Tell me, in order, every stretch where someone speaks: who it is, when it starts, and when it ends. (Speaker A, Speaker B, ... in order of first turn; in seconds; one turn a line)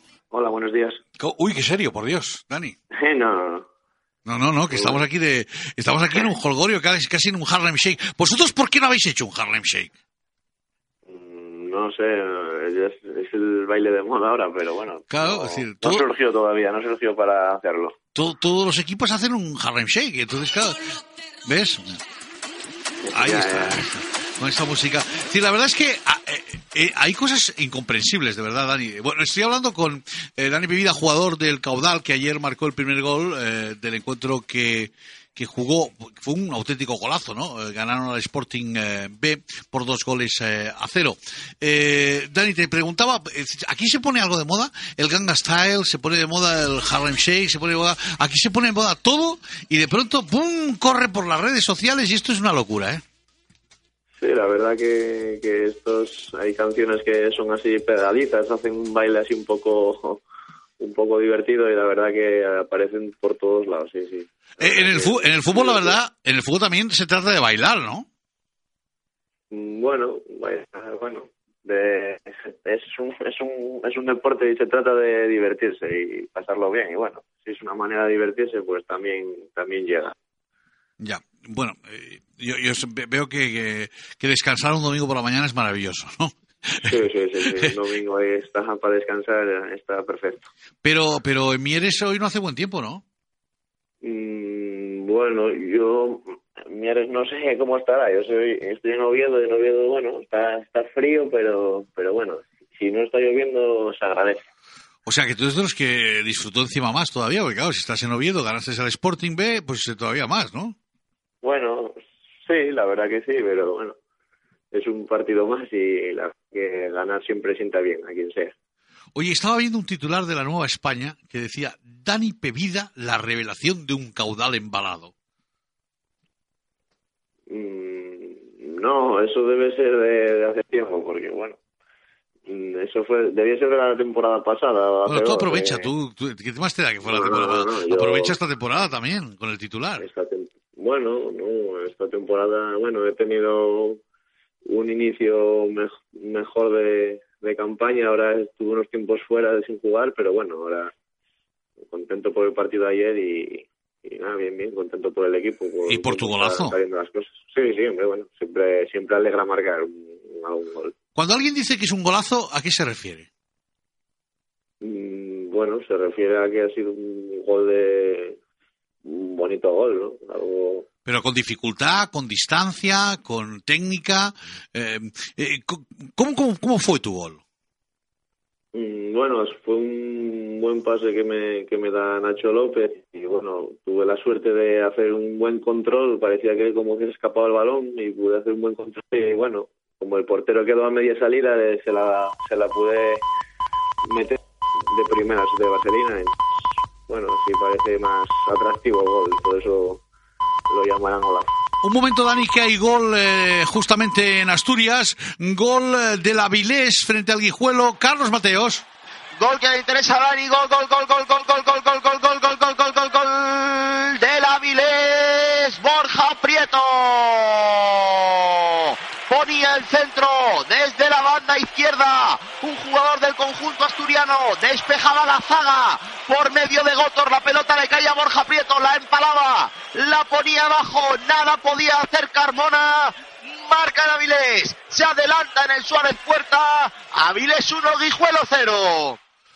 Speaker A: 0.3-1.0
Speaker B: 1.2-2.8
Speaker A: 3.0-3.6
Speaker B: 4.2-9.9
Speaker A: 4.7-5.0
Speaker A: 11.1-17.9
Speaker B: 15.1-16.0
Speaker B: 18.1-20.9
Speaker B: 21.4-22.0
Speaker A: 23.0-23.8
Speaker B: 23.1-53.0
Speaker A: 54.2-60.2
Speaker A: 60.8-66.0
Speaker B: 64.6-68.0
Speaker A: 69.5-80.1
Speaker B: 81.0-87.0
Speaker A: 86.8-90.5
Speaker B: 90.8-93.0
Speaker A: 94.0-104.5
Speaker B: 105.0-110.8
Speaker A: 111.4-113.9
Speaker A: 114.7-118.5
Speaker B: 119.1-125.1
Speaker A: 127.5-131.6
Speaker A: 132.5-135.9
Speaker B: 135.1-140.1
Speaker A: 137.1-138.4
Speaker A: 140.0-144.0
Speaker A: 144.7-150.9
Speaker A: 151.9-160.9
Speaker B: 155.9-156.8
Speaker B: 161.2-163.3
Speaker A: 164.8-168.4
Speaker A: 169.0-170.9
Speaker B: 171.1-177.4
Speaker A: 178.7-193.2
Speaker A: 194.0-200.0
Speaker A: 200.7-201.5
Speaker B: 201.8-208.9
Speaker C: 209.3-239.2